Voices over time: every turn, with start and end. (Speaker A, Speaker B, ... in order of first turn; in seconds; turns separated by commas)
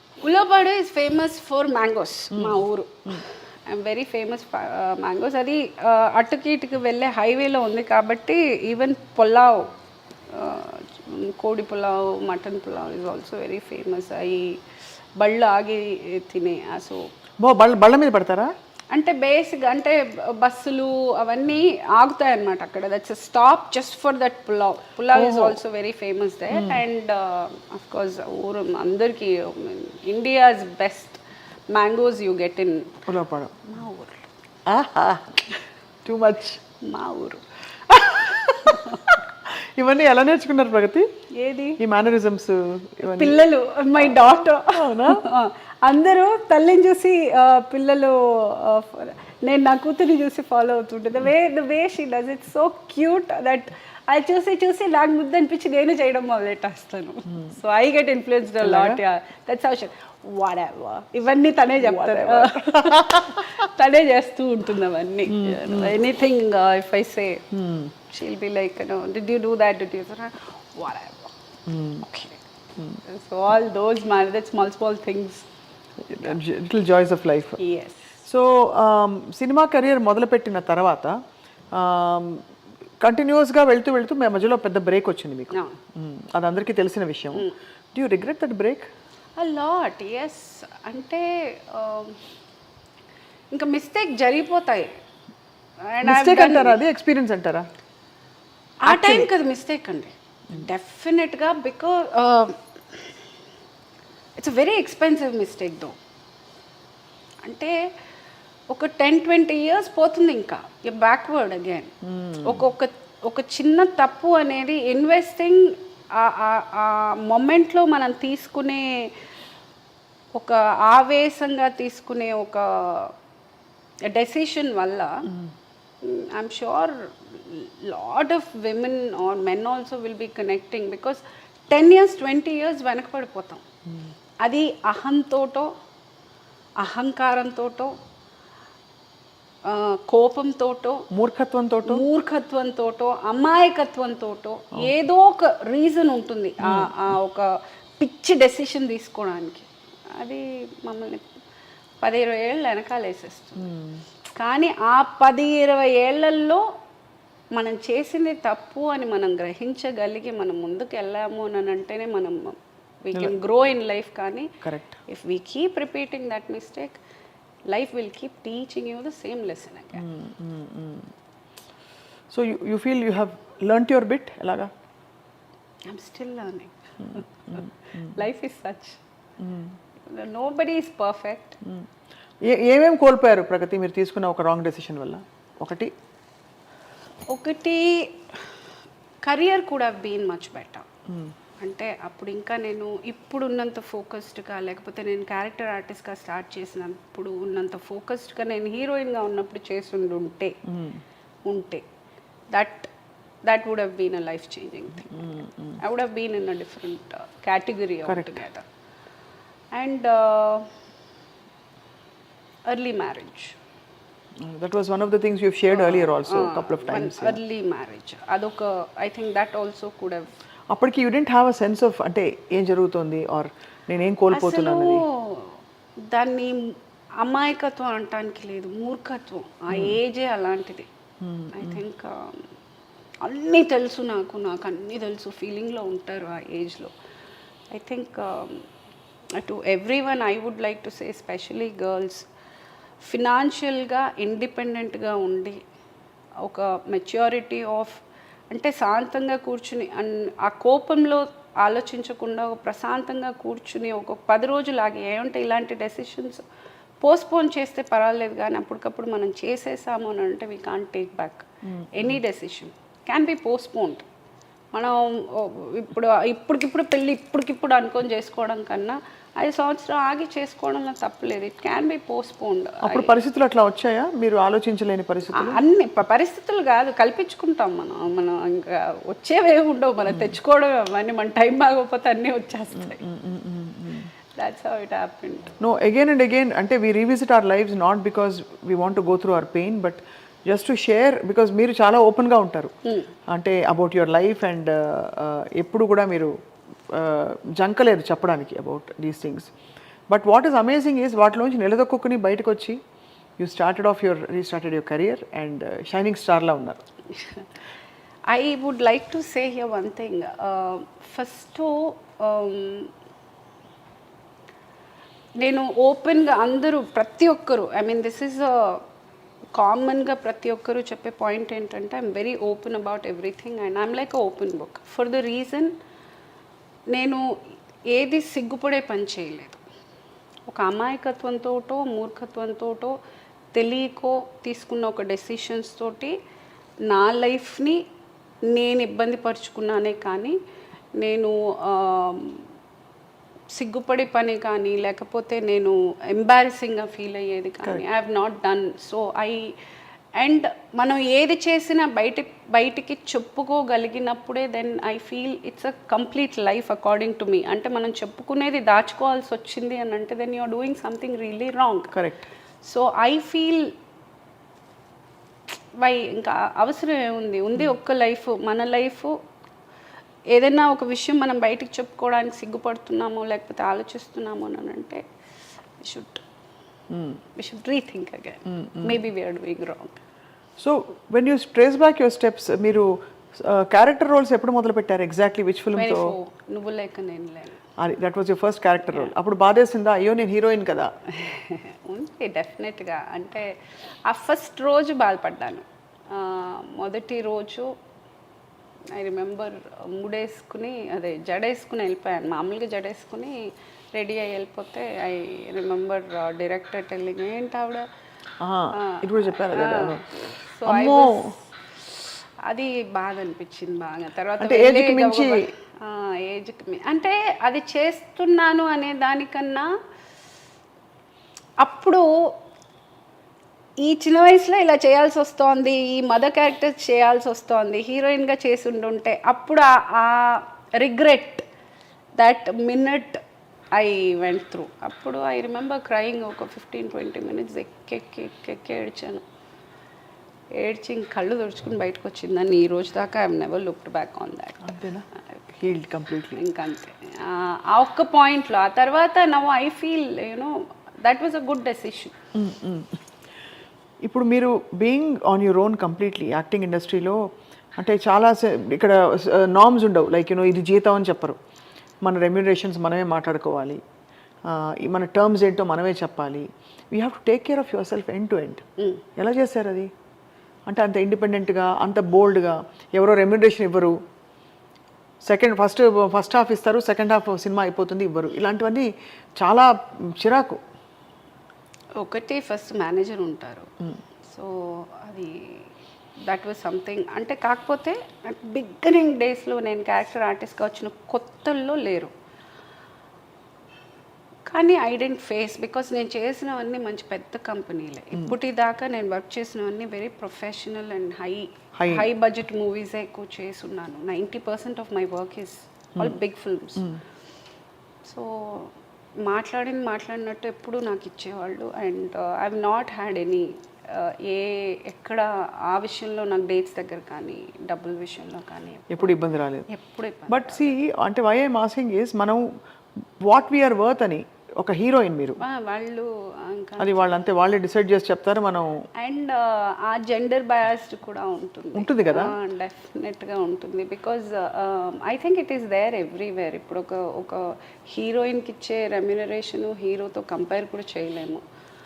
Speaker A: 0.2-9.7, Speaker B: 2.3-3.2, Speaker A: 10.3-14.6, Speaker A: 15.2-17.1, Speaker B: 17.4-18.5, Speaker A: 18.9-33.0, Speaker B: 25.1-25.6, Speaker B: 26.5-26.8, Speaker B: 33.1-33.6, Speaker A: 33.6-34.3, Speaker B: 34.6-35.4, Speaker B: 36.0-36.6, Speaker A: 36.8-37.4, Speaker B: 37.9-41.1, Speaker A: 38.5-39.0, Speaker A: 41.3-41.8, Speaker B: 41.8-43.4, Speaker A: 43.0-67.4, Speaker B: 44.0-45.2, Speaker B: 58.6-59.0, Speaker B: 61.8-63.4, Speaker B: 65.3-66.0, Speaker B: 67.5-67.9, Speaker A: 68.1-71.3, Speaker B: 71.7-72.0, Speaker A: 72.0-72.4, Speaker A: 73.0-75.5, Speaker B: 76.1-77.6, Speaker A: 77.6-78.1, Speaker B: 78.2-81.1, Speaker B: 81.7-82.4, Speaker B: 83.0-88.9, Speaker A: 85.5-85.8, Speaker A: 89.4-92.2, Speaker A: 93.5-94.9, Speaker A: 95.9-96.8, Speaker B: 96.0-97.6, Speaker A: 98.8-103.1, Speaker B: 98.8-99.3, Speaker A: 104.4-106.0, Speaker A: 107.4-107.7, Speaker A: 108.7-118.9, Speaker B: 112.0-112.7, Speaker A: 120.3-123.1, Speaker A: 124.1-125.3, Speaker A: 126.0-133.6, Speaker A: 134.4-135.7, Speaker A: 136.8-137.9, Speaker A: 139.7-141.1, Speaker B: 141.1-142.0, Speaker A: 141.8-151.2, Speaker B: 146.6-146.9, Speaker A: 152.0-153.7, Speaker B: 153.6-154.0, Speaker A: 154.3-156.7, Speaker A: 157.5-164.5, Speaker B: 163.1-163.4, Speaker B: 164.6-165.0, Speaker A: 165.1-167.0, Speaker A: 167.7-170.0, Speaker B: 169.9-171.1, Speaker B: 172.3-174.7, Speaker A: 175.8-179.0, Speaker B: 177.1-178.1, Speaker B: 179.4-179.8, Speaker A: 180.1-181.6, Speaker B: 182.4-185.9, Speaker A: 187.3-188.2, Speaker A: 189.2-190.9, Speaker B: 191.1-191.3, Speaker A: 191.6-200.6, Speaker B: 200.7-201.0, Speaker A: 201.4-201.8, Speaker A: 202.5-202.9, Speaker A: 203.4-208.6, Speaker B: 205.2-205.8, Speaker B: 208.1-208.4, Speaker A: 209.7-210.7, Speaker A: 212.7-213.6, Speaker B: 214.4-217.4, Speaker A: 215.7-220.3, Speaker B: 220.7-225.0, Speaker A: 224.3-230.9, Speaker B: 229.7-230.0, Speaker B: 231.2-231.8, Speaker A: 231.5-232.5, Speaker A: 233.2-236.9, Speaker A: 237.7-238.7, Speaker A: 239.3-242.3, Speaker A: 243.0-245.6, Speaker A: 246.4-256.4, Speaker A: 257.0-264.0, Speaker B: 261.6-262.2, Speaker A: 264.7-273.1, Speaker B: 272.8-275.6, Speaker A: 275.3-283.0, Speaker B: 280.1-280.3, Speaker B: 282.8-284.1, Speaker A: 284.4-285.6, Speaker B: 285.6-292.7, Speaker A: 292.8-293.1, Speaker B: 293.3-296.3, Speaker B: 296.9-299.5, Speaker B: 300.1-302.8, Speaker B: 303.4-306.8, Speaker A: 308.3-312.9, Speaker A: 315.4-318.8, Speaker A: 319.5-325.7, Speaker A: 326.9-327.2, Speaker A: 327.9-329.6, Speaker A: 330.5-332.9, Speaker A: 333.5-336.1, Speaker A: 336.9-337.8, Speaker A: 338.5-340.4, Speaker A: 341.0-342.4, Speaker A: 343.5-349.5, Speaker A: 350.2-361.9, Speaker B: 361.9-362.3, Speaker A: 362.6-363.7, Speaker A: 365.8-369.1, Speaker A: 370.3-375.0, Speaker A: 375.8-376.2, Speaker B: 376.9-377.2, Speaker A: 377.4-380.0, Speaker B: 378.5-378.9, Speaker B: 380.6-386.1, Speaker A: 385.7-387.6, Speaker B: 387.8-390.9, Speaker A: 391.1-393.5, Speaker A: 394.1-397.7, Speaker A: 398.9-403.4, Speaker A: 403.9-407.9, Speaker B: 408.4-411.3, Speaker A: 408.7-411.4, Speaker A: 412.5-419.7, Speaker B: 414.4-415.5, Speaker A: 421.6-422.1, Speaker A: 423.8-431.4, Speaker A: 432.2-433.2, Speaker A: 433.7-439.2, Speaker A: 440.6-444.6, Speaker B: 444.6-445.1, Speaker B: 445.6-446.4, Speaker A: 446.4-452.1, Speaker B: 452.3-453.0, Speaker B: 454.0-457.2, Speaker B: 457.8-461.4, Speaker B: 462.0-463.8, Speaker B: 464.4-468.6, Speaker B: 469.1-469.9, Speaker B: 470.7-473.9, Speaker B: 475.2-478.9, Speaker B: 479.4-480.6, Speaker A: 482.0-483.7, Speaker A: 484.2-485.7, Speaker A: 486.2-492.1, Speaker A: 494.5-506.9, Speaker B: 501.8-502.1, Speaker A: 508.0-519.1, Speaker B: 518.9-519.7, Speaker A: 519.7-520.7, Speaker B: 520.3-522.4, Speaker B: 523.2-525.4, Speaker A: 525.4-527.1, Speaker B: 526.8-528.8, Speaker A: 529.0-541.4, Speaker B: 531.7-532.4